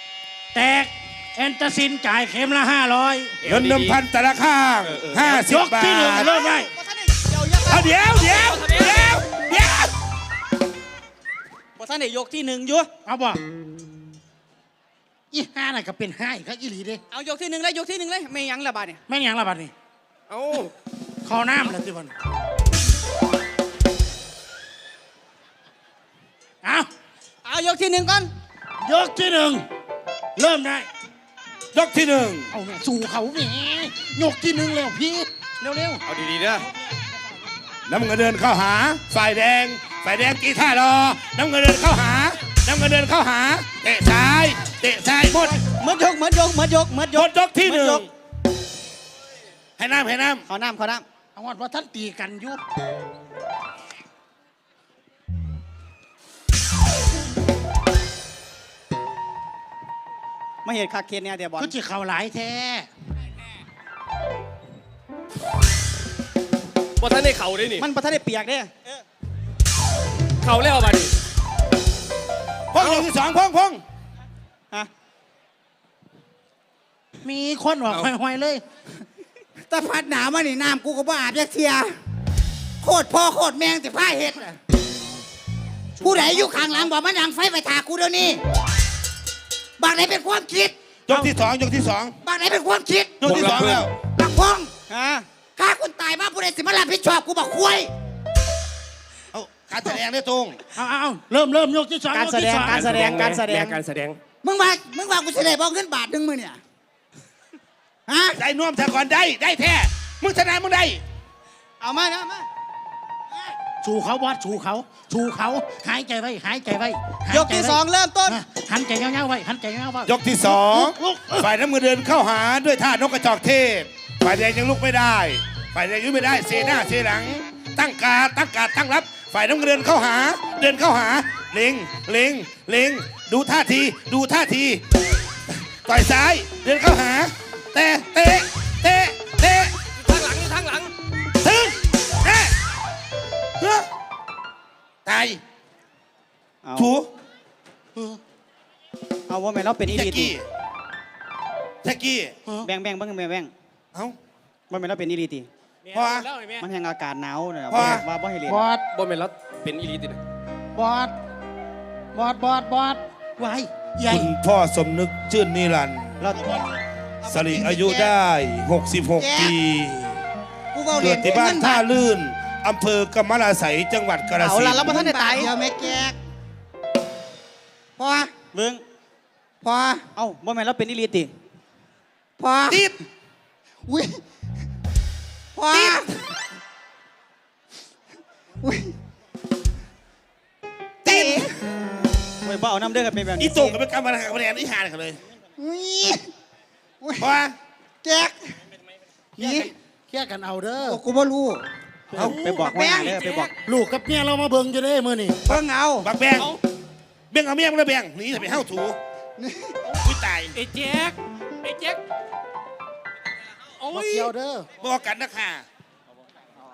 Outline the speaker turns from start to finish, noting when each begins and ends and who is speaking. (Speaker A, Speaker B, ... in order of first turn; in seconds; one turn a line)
Speaker A: 0.5-3.3
Speaker B: 3.4-4.0
Speaker C: 3.4-6.3
Speaker A: 5.2-6.7
Speaker D: 6.1-9.7
Speaker C: 7.7-9.9
Speaker D: 11.8-12.9
Speaker A: 13.1-13.4
Speaker A: 15.3-17.0
Speaker D: 17.1-19.0
Speaker A: 19.1-19.7
Speaker B: 20.3-20.7
Speaker A: 21.2-22.1
Speaker A: 26.6-26.9
Speaker D: 27.4-28.3
Speaker A: 28.8-29.6
Speaker A: 30.4-30.9
Speaker C: 31.7-32.5
Speaker A: 32.5-36.0
Speaker B: 36.1-36.7
Speaker C: 37.9-45.6
Speaker D: 45.8-48.1
Speaker C: 47.1-48.1
Speaker C: 49.8-50.5
Speaker D: 50.5-51.0
Speaker A: 51.4-52.6
Speaker D: 60.6-61.7
Speaker A: 61.6-62.9
Speaker B: 67.0-67.8
Speaker D: 67.7-69.0
Speaker B: 70.4-71.1
Speaker C: 72.7-73.8
Speaker A: 77.2-78.6
Speaker E: 79.7-81.9
Speaker E: 82.8-84.6
Speaker E: 86.0-88.4
Speaker A: 86.0-86.8
Speaker E: 89.8-90.8
Speaker C: 91.1-92.2
Speaker E: 92.2-93.3
Speaker C: 93.2-93.9
Speaker B: 93.2-93.9
Speaker E: 94.1-94.7
Speaker D: 94.9-95.2
Speaker E: 95.6-97.9
Speaker C: 99.3-100.6
Speaker A: 100.8-102.8
Speaker D: 102.1-103.8
Speaker B: 102.8-104.2
Speaker E: 104.4-106.6
Speaker E: 108.1-108.4
Speaker C: 108.4-111.0
Speaker D: 111.8-112.5
Speaker A: 113.8-121.5
Speaker D: 117.3-118.4
Speaker C: 120.0-134.8
Speaker C: 135.5-139.8
Speaker B: 140.0-140.9
Speaker C: 141.4-142.5
Speaker C: 143.6-143.9
Speaker C: 145.0-145.4
Speaker D: 146.6-146.9
Speaker C: 146.8-147.1
Speaker D: 149.3-150.3
Speaker C: 149.8-150.4
Speaker C: 151.8-152.3
Speaker D: 152.6-153.5
Speaker D: 154.7-155.5
Speaker C: 155.9-156.3
Speaker D: 156.6-158.6
Speaker C: 157.7-158.0
Speaker A: 158.5-158.8
Speaker B: 158.9-160.2
Speaker A: 160.8-161.2
Speaker A: 162.1-164.3
Speaker C: 164.1-166.2
Speaker D: 166.2-166.7
Speaker A: 166.4-166.8
Speaker E: 167.2-168.1
Speaker C: 167.3-170.2
Speaker E: 169.2-169.5
Speaker E: 170.7-171.8
Speaker C: 170.9-174.9
Speaker D: 174.4-175.5
Speaker E: 174.8-176.2
Speaker E: 178.0-178.3
Speaker D: 178.5-178.8
Speaker E: 179.6-180.1
Speaker D: 180.2-181.3
Speaker E: 182.4-182.8
Speaker C: 182.7-182.9
Speaker E: 183.9-184.2
Speaker E: 185.5-186.2
Speaker E: 188.6-188.9
Speaker E: 191.0-191.5
Speaker D: 191.1-191.4
Speaker D: 192.4-193.8
Speaker C: 193.4-195.2
Speaker E: 195.6-196.3
Speaker E: 197.0-197.3
Speaker C: 197.2-197.5
Speaker E: 198.0-198.6
Speaker E: 199.4-199.7
Speaker A: 200.1-201.0
Speaker E: 200.8-201.6
Speaker D: 202.1-203.5
Speaker E: 202.3-203.4
Speaker A: 203.7-205.4
Speaker E: 205.5-206.1
Speaker C: 205.5-206.5
Speaker C: 207.3-209.0
Speaker E: 209.4-209.8
Speaker C: 210.0-210.6
Speaker B: 210.6-211.1
Speaker B: 211.6-212.0
Speaker A: 213.9-214.7
Speaker C: 214.8-215.7